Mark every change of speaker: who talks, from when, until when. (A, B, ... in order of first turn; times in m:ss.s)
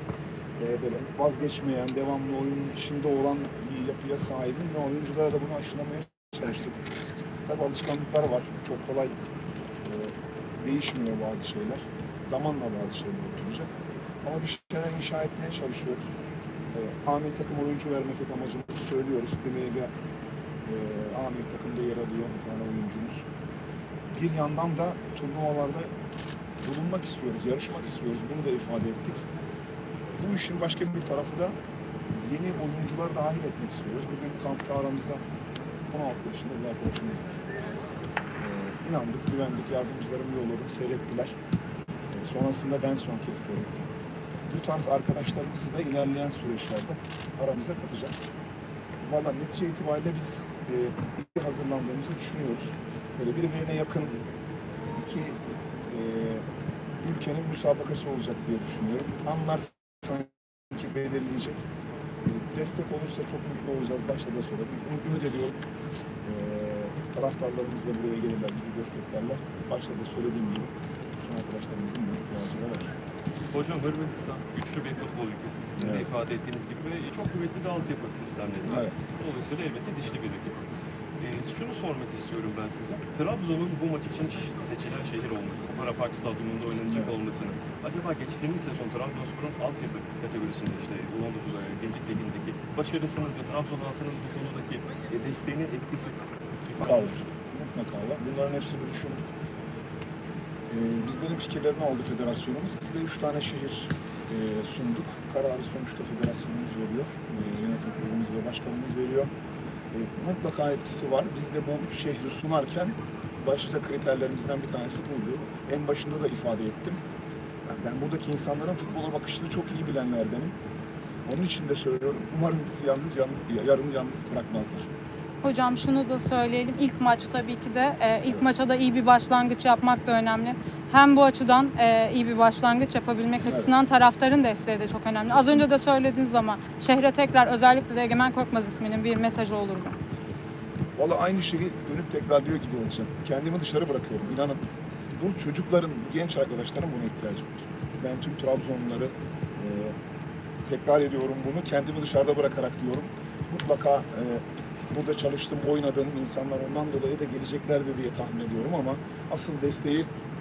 0:00.6-0:06.8 A
0:07.5-0:09.2 A
0:09.8-0:13.7 A
0:14.2-0:16.1 A
0:16.7-0:19.9 A
0:20.6-0:23.3 A
0:24.1-0:25.9 A
0:26.6-0:29.2 A
0:30.2-0:31.6 A
0:32.1-0:35.2 A
0:35.9-0:37.4 A
0:38.4-0:41.3 A
0:42.1-0:43.9 A
0:44.5-0:48.3 A
0:49.0-0:54.2 A
0:55.0-0:55.4 A
0:55.9-0:56.4 A
0:57.0-1:01.6 A
1:02.2-1:05.6 A
1:06.2-1:12.9 A
1:13.5-1:20.6 B
1:15.8-1:16.1 A
1:18.7-1:18.9 A
1:21.2-1:37.2 B
1:36.8-1:39.3 A
1:40.7-1:49.3 A
1:49.9-1:57.0 A
1:57.7-2:00.6 A
2:01.2-2:04.9 A
2:05.4-2:19.9 C
2:13.4-2:13.7 A
2:15.3-2:15.6 A
2:21.0-2:24.6 A
2:25.1-2:29.9 A
2:30.7-2:40.1 A